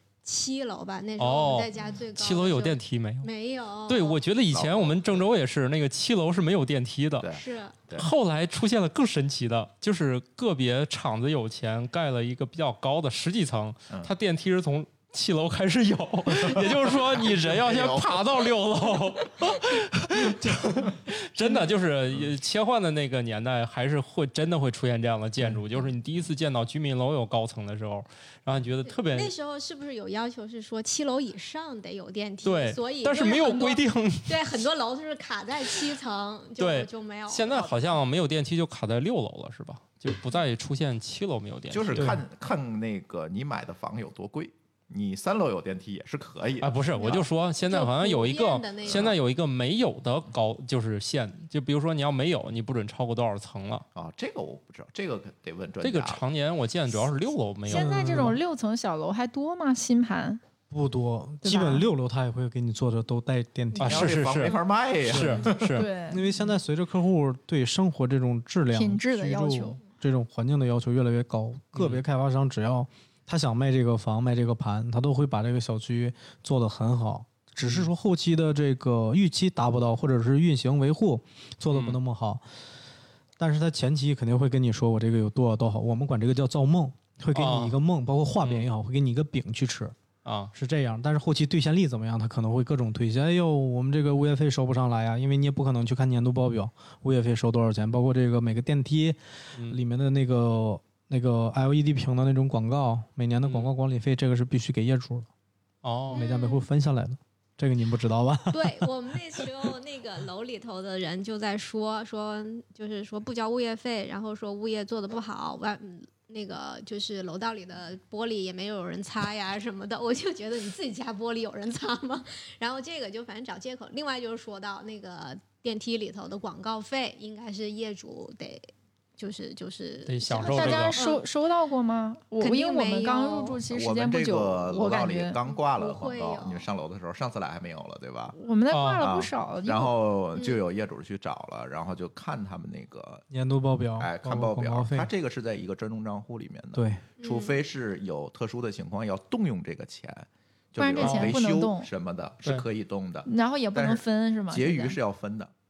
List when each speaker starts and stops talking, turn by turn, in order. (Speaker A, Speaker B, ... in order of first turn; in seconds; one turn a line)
Speaker A: 0.2-4.2
Speaker B: 1.2-3.3
Speaker B: 3.9-7.3
Speaker C: 4.5-5.3
Speaker C: 7.2-8.1
Speaker A: 7.3-7.8
Speaker B: 7.9-29.3
Speaker C: 16.3-18.5
Speaker A: 28.8-37.7
Speaker B: 32.4-34.6
Speaker B: 36.6-42.1
Speaker C: 41.7-46.7
Speaker D: 42.0-42.2
Speaker B: 46.6-53.9
Speaker A: 47.0-49.1
Speaker C: 48.9-49.1
Speaker C: 53.9-56.2
Speaker B: 55.8-58.3
Speaker E: 57.7-60.4
Speaker D: 57.7-58.4
Speaker D: 60.7-64.2
Speaker E: 61.4-61.9
Speaker B: 63.8-65.9
Speaker C: 63.8-65.7
Speaker D: 65.0-65.5
Speaker E: 65.8-66.3
Speaker D: 66.1-82.4
Speaker E: 68.7-69.8
Speaker B: 71.7-72.0
Speaker B: 77.6-77.9
Speaker B: 81.7-82.0
Speaker D: 83.4-89.9
Speaker B: 87.3-87.8
Speaker B: 88.4-88.7
Speaker B: 90.2-90.5
Speaker D: 90.5-105.3
Speaker B: 103.4-103.7
Speaker B: 105.8-106.2
Speaker A: 106.1-106.7
Speaker D: 106.1-108.9
Speaker A: 108.5-128.6
Speaker A: 129.2-131.2
Speaker B: 130.1-131.0
Speaker E: 130.4-135.4
Speaker A: 132.4-133.6
Speaker C: 133.7-138.3
Speaker A: 135.5-136.7
Speaker E: 138.4-139.9
Speaker B: 138.7-139.1
Speaker C: 139.0-143.2
Speaker A: 140.3-140.6
Speaker D: 143.3-145.1
Speaker C: 144.0-155.5
Speaker D: 146.7-147.0
Speaker A: 147.2-147.6
Speaker E: 150.8-151.9
Speaker B: 151.0-151.4
Speaker E: 153.2-155.0